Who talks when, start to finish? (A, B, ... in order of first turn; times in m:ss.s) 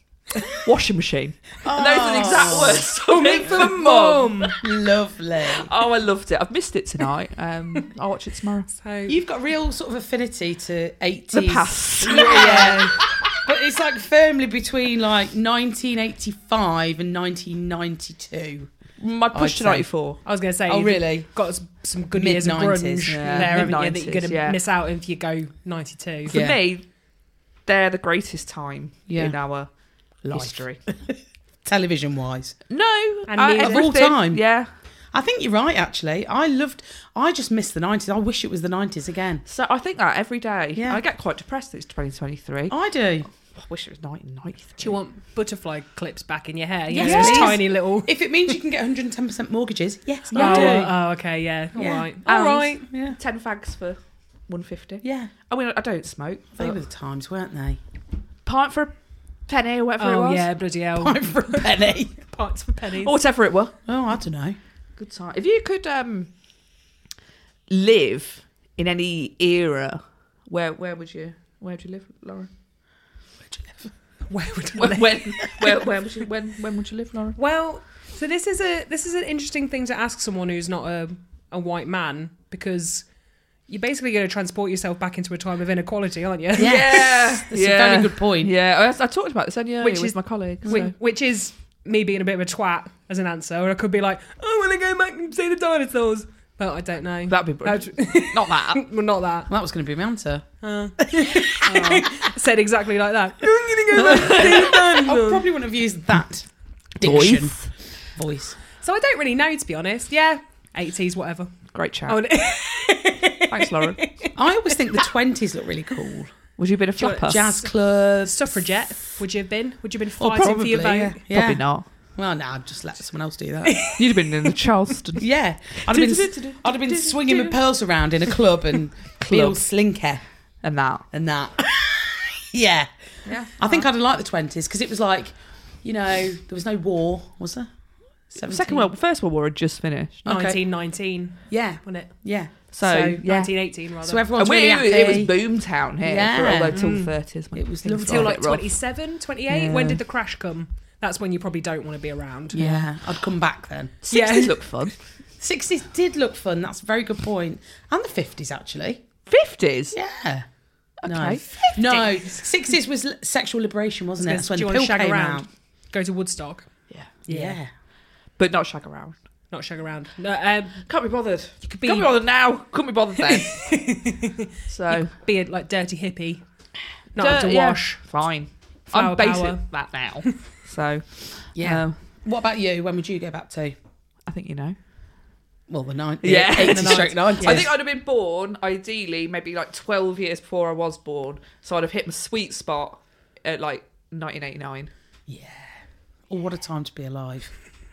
0:00.4-0:04.6 A
0:01.6-0:02.9 B
0:02.8-0:04.5 C
0:04.6-0:05.7 B
0:05.5-0:08.7 A
0:08.7-0:09.2 C
0:09.1-0:18.7 B
0:11.3-0:13.0 A
0:12.0-0:13.0 C
0:19.0-0:20.2 A
0:19.3-0:19.9 B
0:20.2-0:26.4 C
0:20.7-0:21.3 B
0:22.1-0:23.7 B
0:23.1-0:24.6 A
0:26.3-0:26.9 A
0:26.3-0:26.6 B
0:27.6-0:29.7 A
0:29.1-0:29.4 B
0:30.2-0:30.8 A
0:30.2-0:32.6 B
0:32.7-0:34.7 A
0:33.3-0:33.9 C
0:33.6-0:34.4 B
0:35.1-0:39.4 B
0:39.5-0:42.8 A
0:40.8-0:41.0 B
0:42.7-0:43.3 B
0:43.5-0:45.0 A
0:44.8-0:48.2 C
0:46.9-0:50.9 B
0:47.0-0:47.6 A
0:50.3-0:50.9 A
0:50.3-0:52.8 C
0:51.8-0:52.1 B
0:52.2-0:56.8 A
0:52.9-0:53.2 B
0:55.0-0:55.3 B
0:56.6-0:57.8 B
0:58.4-0:58.9 A
0:59.5-1:00.5 A
1:00.0-1:01.7 C
1:01.0-1:02.2 B
1:02.2-1:03.1 C
1:03.0-1:03.8 A
1:03.8-1:04.6 B
1:05.0-1:06.3 A
1:07.7-1:12.5 A
1:13.5-1:13.9 B
1:14.3-1:15.5 C
1:14.8-1:17.4 A
1:17.4-1:23.1 C
1:23.7-1:26.9 C
1:26.6-1:30.9 A
1:26.6-1:28.5 B
1:29.8-1:39.5 C
1:37.3-1:38.8 A
1:39.5-1:40.4 B
1:40.6-1:45.4 C
1:41.0-1:41.8 B
1:41.6-1:42.1 A
1:43.9-1:48.6 B
1:44.0-1:44.6 A
1:47.0-1:47.7 A
1:48.8-1:55.1 C
1:51.7-1:52.2 A
1:53.5-1:54.1 A
1:54.3-1:56.3 B
1:56.6-1:57.6 A
1:57.0-1:57.7 C
1:57.2-1:58.6 B
1:58.2-2:01.2 C
2:00.2-2:01.6 B
2:01.3-2:01.8 A
2:02.2-2:03.9 B
2:03.6-2:04.6 C
2:04.0-2:05.3 A
2:05.2-2:10.2 B
2:05.8-2:07.6 A
2:09.2-2:09.6 A
2:10.6-2:11.0 A
2:11.1-2:12.9 B
2:13.2-2:13.7 A
2:13.6-2:17.7 B
2:18.3-2:18.9 B
2:18.4-2:20.2 A
2:20.2-2:20.6 B
2:20.2-2:22.1 C
2:21.5-2:22.6 B
2:22.7-2:23.5 A
2:22.8-2:24.3 C
2:24.0-2:25.4 B
2:24.4-2:28.7 A
2:26.0-2:26.8 B
2:26.7-2:27.1 C
2:27.5-2:28.4 B
2:27.9-2:32.6 C
2:29.5-2:30.0 B
2:32.5-2:33.9 B
2:32.5-2:32.9 A
2:34.0-2:34.9 A
2:34.1-2:34.7 C
2:35.4-2:39.0 B
2:39.3-2:40.0 A
2:39.9-2:40.4 B
2:41.0-2:42.0 A
2:41.0-2:45.4 B
2:41.5-2:42.4 C
2:44.2-2:46.7 C
2:47.3-2:47.6 C
2:47.3-2:47.7 B
2:48.4-2:49.2 A
2:49.5-2:50.8 C
2:50.8-2:53.8 A
2:51.6-2:52.1 C
2:53.2-2:56.4 C
2:54.7-2:55.1 A
2:57.1-2:58.0 C
2:57.2-3:02.0 A
2:58.9-3:00.4 C
3:01.5-3:03.7 B
3:04.3-3:04.8 A
3:05.7-3:07.7 B
3:06.2-3:14.9 A
3:06.6-3:07.6 C
3:15.3-3:15.7 B
3:16.3-3:17.5 B